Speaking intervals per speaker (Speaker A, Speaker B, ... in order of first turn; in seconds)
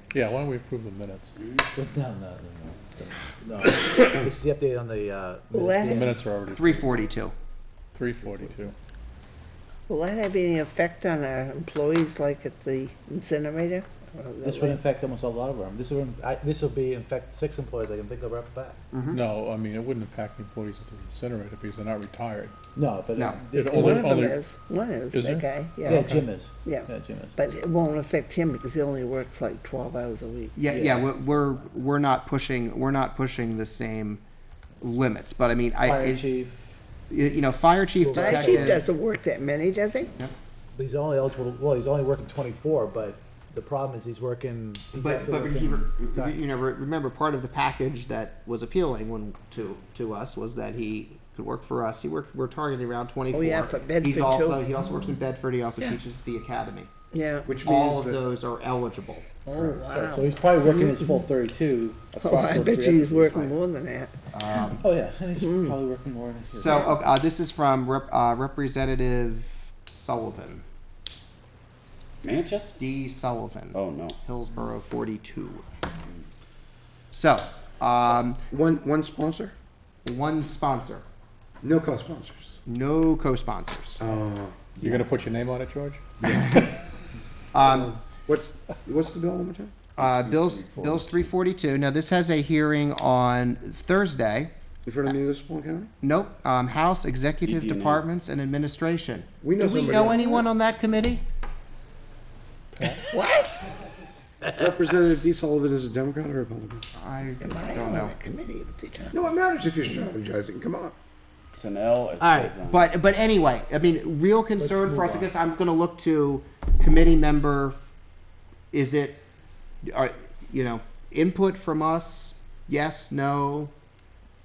Speaker A: 0.1-1.3, 5.9-6.9, 8.0-8.8, 19.1-22.6, 23.5-24.4, 25.1-26.0, 84.8-86.1
Speaker B: 1.7-6.2, 14.4-18.8, 22.8-24.3, 25.9-27.4, 30.7-31.1, 35.7-36.8, 38.0-38.9, 40.7-46.4, 59.8-63.5, 64.7-67.0, 104.4-104.8, 112.2-112.5, 114.6-115.3
Speaker C: 5.5-6.1, 9.9-14.8, 23.7-30.6, 38.1-40.1, 53.3-54.7, 57.1-57.5, 59.5-60.3, 62.2-64.2, 65.4-65.7, 103.1-103.7, 107.4-109.2
Speaker D: 6.5-7.3, 18.9-19.2, 23.1-23.4, 30.6-34.2, 34.8-36.4, 37.1-38.9, 45.0-56.9, 57.5-59.3, 64.3-64.8, 66.5-70.7, 72.8-75.7, 77.1-78.4, 80.0-81.0, 82.7-84.0, 86.3-86.7, 87.5-88.0, 90.0-94.5, 96.0-101.2, 107.0-108.2, 112.7-117.8, 118.7-119.2, 119.8-123.7
Speaker E: 57.5-58.2, 78.5-79.5, 81.6-82.6, 84.0-84.8, 86.2-86.6, 87.6-89.9, 94.8-95.9, 99.4-100.4, 104.6-106.9, 109.1-111.0
Speaker F: 72.2-72.8, 73.7-74.2, 97.4-98.0, 111.5-112.9